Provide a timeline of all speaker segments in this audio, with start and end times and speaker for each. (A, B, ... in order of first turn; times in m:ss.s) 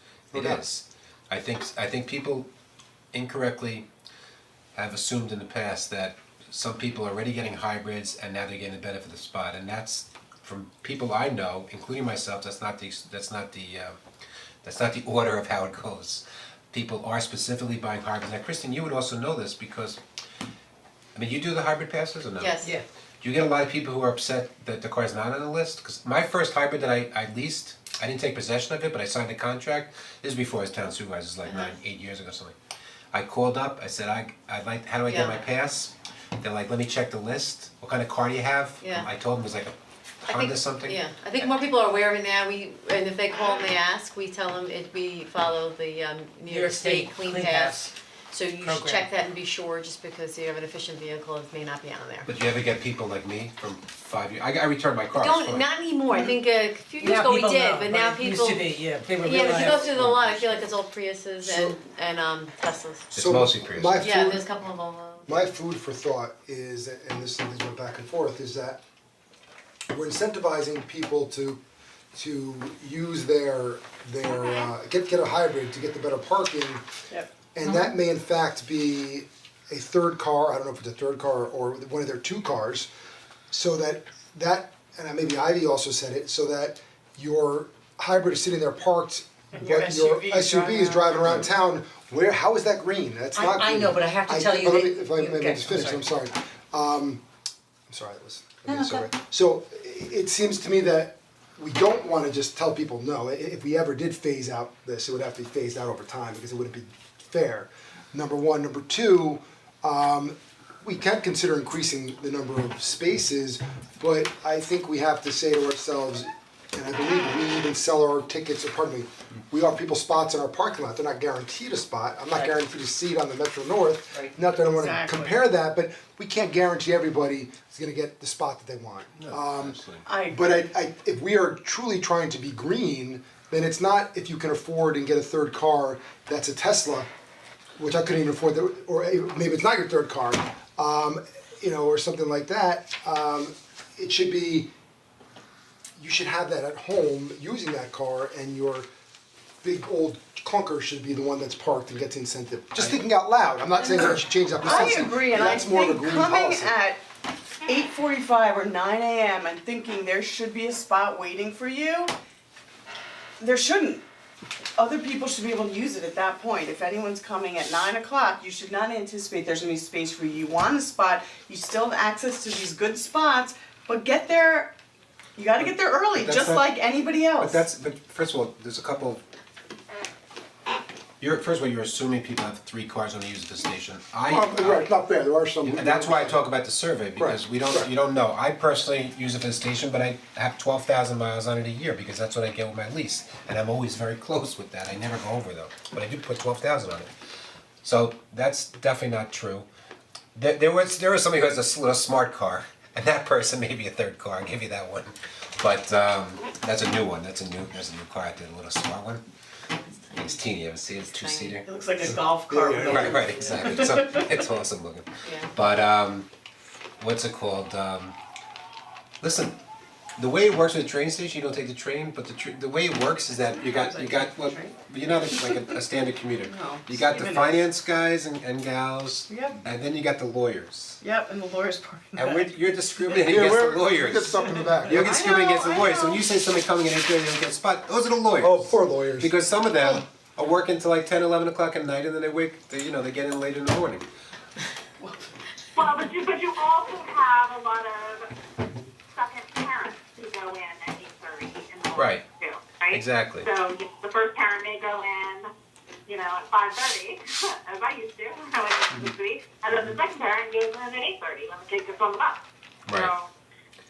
0:00.3-0:00.6 A
0:00.3-0:02.5 B
0:03.1-0:03.8 B
0:04.7-0:14.0 B
0:14.6-0:20.0 B
0:21.1-0:22.6 B
0:22.4-0:22.8 C
0:23.2-0:32.5 B
0:31.4-0:31.8 C
0:33.1-0:41.0 B
0:35.0-0:35.4 C
0:38.8-0:39.1 C
0:40.2-0:52.3 C
0:46.5-0:47.9 D
0:48.6-0:49.1 D
0:52.2-0:55.7 B
0:55.2-0:58.6 C
0:57.0-1:00.1 D
0:59.2-1:03.1 C
0:59.6-1:00.6 B
1:01.4-1:01.8 A
1:03.1-1:03.9 B
1:03.1-1:04.5 A
1:04.0-1:05.5 C
1:05.2-1:08.8 A
1:09.9-1:11.6 A
1:12.1-1:16.8 A
1:17.5-1:22.9 A
1:23.5-1:37.2 A
1:29.5-1:31.4 E
1:33.5-1:36.0 D
1:37.9-2:09.8 A
1:38.7-1:39.0 D
2:04.7-2:05.4 E
2:09.2-2:10.0 B
2:10.0-2:10.6 E
2:10.3-2:17.1 A
2:17.8-2:24.7 A
2:26.0-2:28.9 A
2:29.6-2:36.7 A
2:34.0-2:37.0 E
2:37.6-2:42.1 E
2:43.4-2:44.0 E
2:44.8-2:54.8 E
2:55.4-2:57.6 E
2:55.6-2:56.7 B
2:57.4-2:59.2 B
3:01.2-3:04.9 B
3:04.3-3:06.4 A
3:05.6-3:17.1 B
3:07.2-3:07.9 A
3:17.8-3:19.7 B
3:20.3-3:29.2 B
3:30.1-3:30.4 C
3:30.1-3:32.2 B
3:30.9-3:31.6 C
3:31.6-3:34.3 E
3:32.5-3:33.3 A
3:32.7-3:36.3 B
3:35.2-3:35.5 C
3:37.0-3:38.2 B
3:39.2-3:39.6 B
3:40.2-3:51.0 B
3:43.5-3:45.7 E
3:46.4-3:47.7 E
3:49.3-3:49.6 E
3:51.0-3:52.5 E
3:52.1-4:04.0 B
3:53.2-3:55.2 A
3:54.6-3:56.2 E
3:58.4-4:00.0 A
4:05.0-4:05.3 E
4:05.8-4:08.3 F
4:09.1-4:15.5 F
4:11.9-4:12.2 B
4:12.9-4:13.5 B
4:16.0-4:23.3 F
4:22.9-4:23.1 B